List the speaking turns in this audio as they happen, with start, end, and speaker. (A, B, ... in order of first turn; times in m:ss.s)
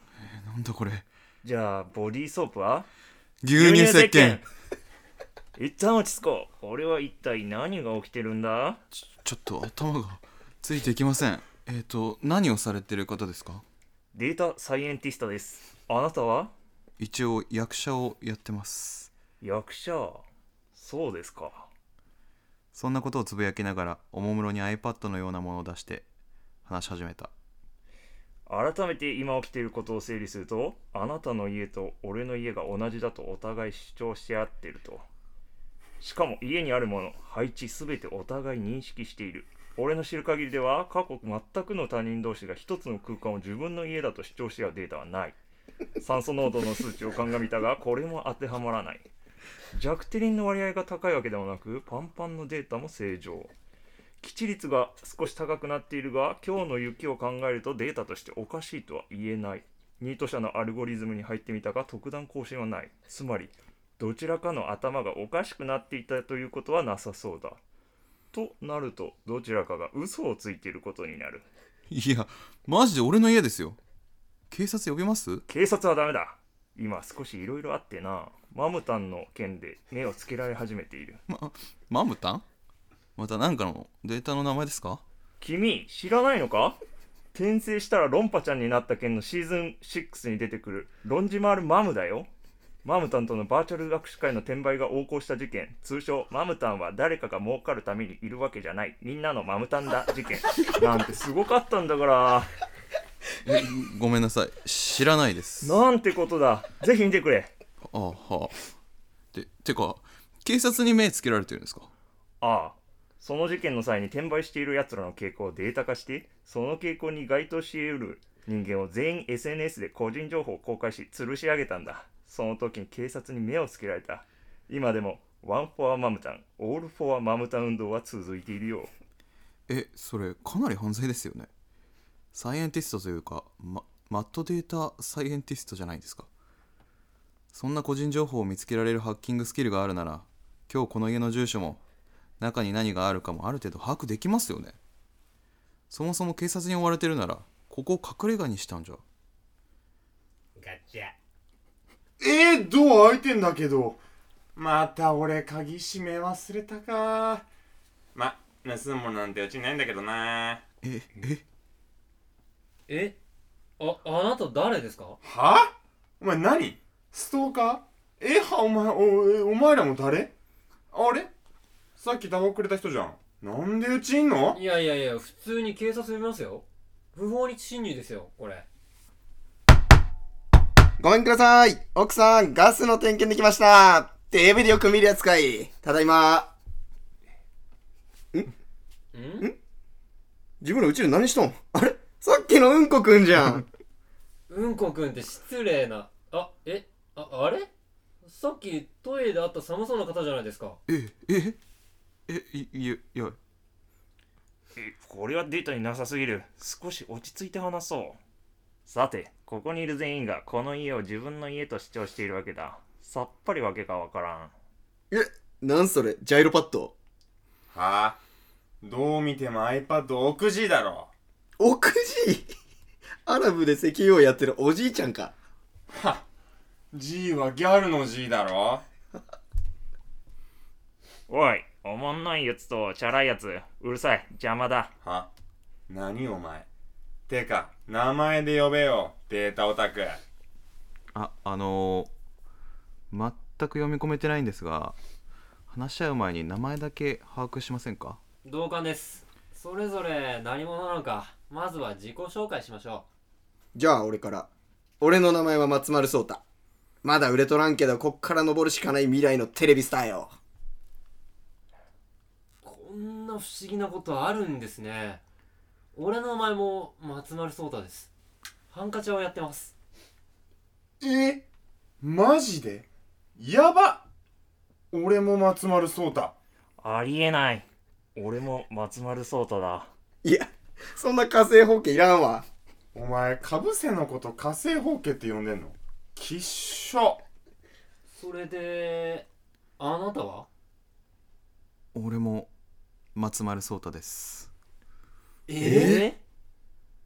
0:00.2-0:01.1 A
0:01.4-0:02.9 B
0:03.4-0:04.4 A
0:03.6-0:04.5 B
0:05.6-0:08.8 B
0:09.0-0:13.6 A
0:14.1-0:16.5 B
0:17.0-0:19.1 A
0:19.4-0:21.7 B
0:22.7-0:26.1 A
0:26.6-0:27.3 A
0:28.5-0:35.1 B
0:36.0-0:45.4 B
0:46.0-0:49.1 B
0:49.8-0:53.5 B
0:54.2-1:07.6 B
1:08.3-1:11.4 B
1:11.9-1:13.8 A
1:14.5-1:15.4 A
1:15.5-1:21.2 B
1:21.3-1:22.4 A
1:23.2-1:25.0 A
1:25.4-1:26.8 B
1:27.3-1:32.3 B
1:32.8-1:42.5 B
1:43.4-1:45.8 A
1:45.6-1:47.5 B
1:47.9-1:48.6 A
1:49.3-1:51.9 A
1:52.4-2:08.9 B
2:09.7-2:11.5 A
2:12.3-2:16.3 A
2:17.5-2:21.8 A
2:22.4-2:24.8 A
2:25.9-2:29.0 A
2:32.2-2:34.0 C
2:34.6-2:37.5 C
2:38.2-2:40.6 C
2:40.8-2:41.4 A
2:42.9-2:43.2 D
2:43.8-2:45.2 D
2:45.2-2:50.3 C
2:50.9-2:51.3 C
2:52.0-2:54.6 C
2:54.6-2:58.7 D
3:01.0-3:06.5 E
3:09.1-3:09.5 D
3:10.6-3:13.6 E
3:14.5-3:17.7 D
3:18.2-3:20.8 D
3:20.9-3:21.6 A
3:22.3-3:23.4 A
3:24.8-3:28.2 B
3:28.9-3:34.5 B
3:35.1-3:37.0 E
3:37.7-3:38.2 C
3:38.8-3:41.1 C
3:41.6-3:42.5 E
3:43.3-3:45.3 E
3:45.9-3:46.2 C
3:46.9-3:48.8 C
3:51.3-3:54.9 B
3:55.0-3:55.3 C
3:55.9-3:56.7 C
3:57.3-4:00.2 C
4:01.1-4:02.1 A
4:03.1-4:05.0 A
4:05.7-4:08.2 A
4:08.4-4:13.0 D
4:13.8-4:14.5 E
4:15.0-4:16.4 E
4:17.0-4:20.4 E
4:22.6-4:25.2 D
4:25.9-4:28.1 D
4:28.7-4:29.7 D
4:31.0-4:31.4 C
4:32.0-4:34.0 C
4:34.9-4:36.4 C
4:36.8-4:39.9 B
4:40.2-4:42.5 E
4:42.9-4:47.2 C
4:48.1-4:49.3 D
4:49.8-4:50.5 D
4:51.9-4:52.5 A
4:53.2-4:54.5 A
4:55.5-4:56.2 D
4:55.6-4:56.1 A